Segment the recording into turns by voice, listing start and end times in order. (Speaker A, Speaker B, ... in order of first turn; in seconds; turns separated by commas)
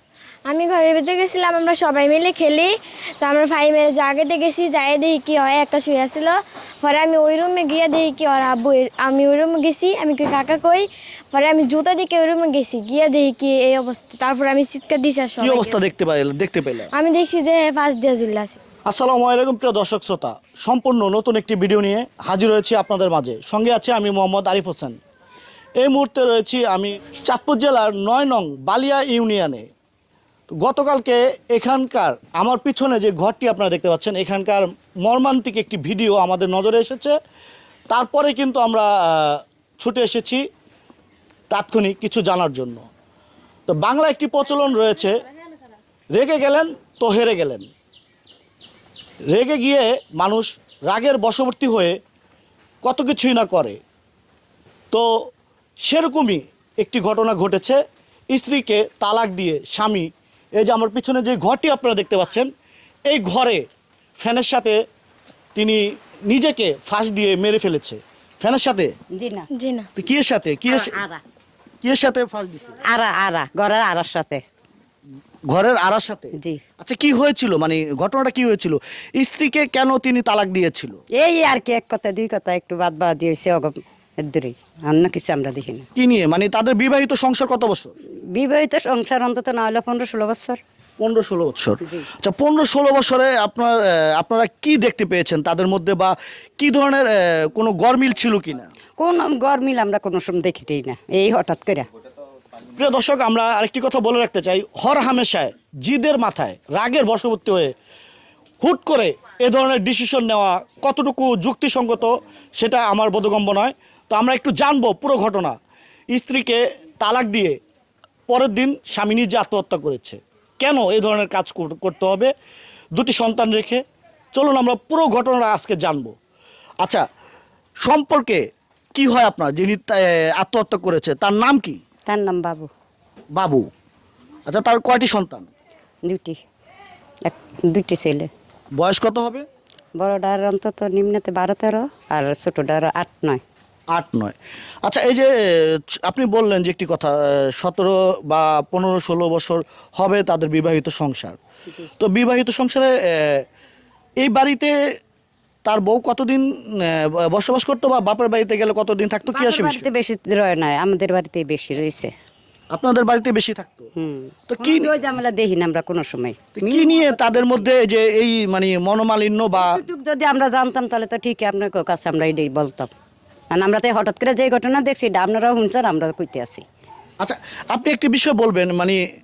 Speaker A: 0.5-15.8, Speaker B: 15.4-16.9, Speaker A: 16.9-18.6, Speaker B: 18.9-25.0, Speaker B: 25.8-29.7, Speaker B: 30.6-37.2, Speaker B: 37.9-40.4, Speaker B: 41.5-42.8, Speaker B: 43.7-45.2, Speaker B: 46.1-47.7, Speaker B: 49.3-52.0, Speaker B: 52.8-53.8, Speaker B: 55.9-57.8, Speaker B: 58.3-62.5, Speaker B: 63.1-63.6, Speaker B: 64.2-64.8, Speaker B: 65.5-68.9, Speaker C: 69.2-69.5, Speaker A: 69.5-69.9, Speaker B: 70.0-71.0, Speaker C: 70.7-71.2, Speaker B: 71.8-72.8, Speaker C: 72.8-74.4, Speaker B: 75.5-81.0, Speaker C: 81.2-85.8, Speaker B: 86.0-87.9, Speaker C: 88.3-90.6, Speaker B: 91.0-98.7, Speaker C: 99.0-101.9, Speaker B: 102.8-107.7, Speaker B: 108.6-115.6, Speaker B: 116.1-117.6, Speaker B: 118.3-122.3, Speaker B: 123.0-123.8, Speaker B: 124.3-126.1, Speaker B: 127.8-131.8, Speaker C: 132.1-132.7, Speaker B: 133.3-133.7, Speaker B: 134.5-135.5, Speaker C: 136.1-136.4, Speaker C: 137.3-138.3, Speaker B: 138.8-139.5, Speaker C: 140.0-143.4, Speaker B: 143.9-151.4, Speaker B: 152.0-153.4, Speaker B: 154.2-154.8, Speaker B: 155.7-159.9, Speaker C: 159.3-162.1, Speaker B: 162.7-163.9, Speaker C: 164.0-167.5, Speaker B: 164.5-164.9, Speaker B: 166.6-169.8, Speaker C: 169.6-172.9, Speaker C: 173.5-176.6, Speaker B: 177.2-179.0